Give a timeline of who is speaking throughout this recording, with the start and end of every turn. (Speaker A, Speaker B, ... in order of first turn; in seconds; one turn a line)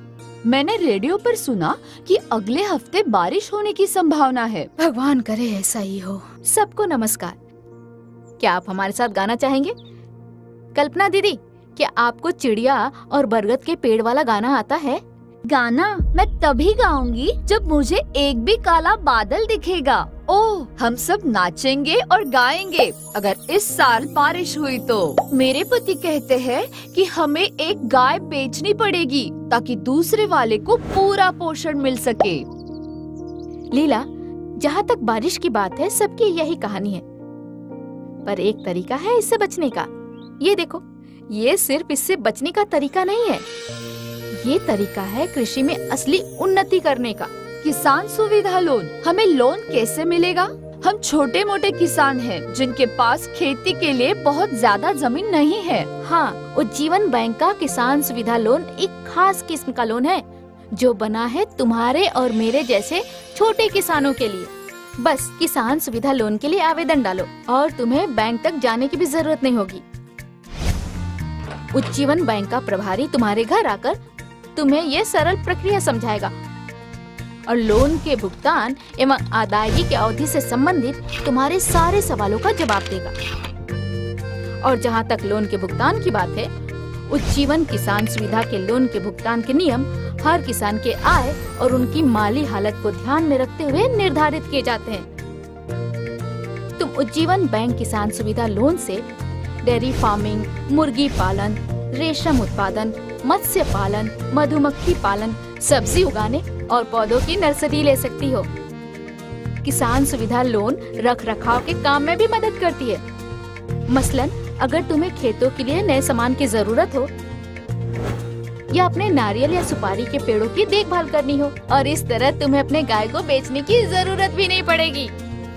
Speaker A: 0.4-4.7
Speaker B: 4.8-7.4
Speaker B: 8.4-9.7
Speaker B: 10.7-15.0
Speaker A: 15.5-32.5
Speaker B: 33.7-34.0
Speaker B: 34.6-37.0
Speaker B: 38.2-39.9
Speaker B: 40.4-43.4
Speaker B: 44.3-47.3
Speaker A: 47.6-55.9
Speaker B: 56.0-69.8
Speaker B: 71.7-74.0
Speaker B: 74.5-76.3
Speaker B: 77.5-83.1
Speaker B: 84.6-86.5
Speaker B: 87.1-95.1
Speaker B: 96.8-99.0
Speaker B: 99.6-108.5
Speaker B: 109.6-113.0
Speaker B: 113.9-117.1
Speaker B: 118.7-125.1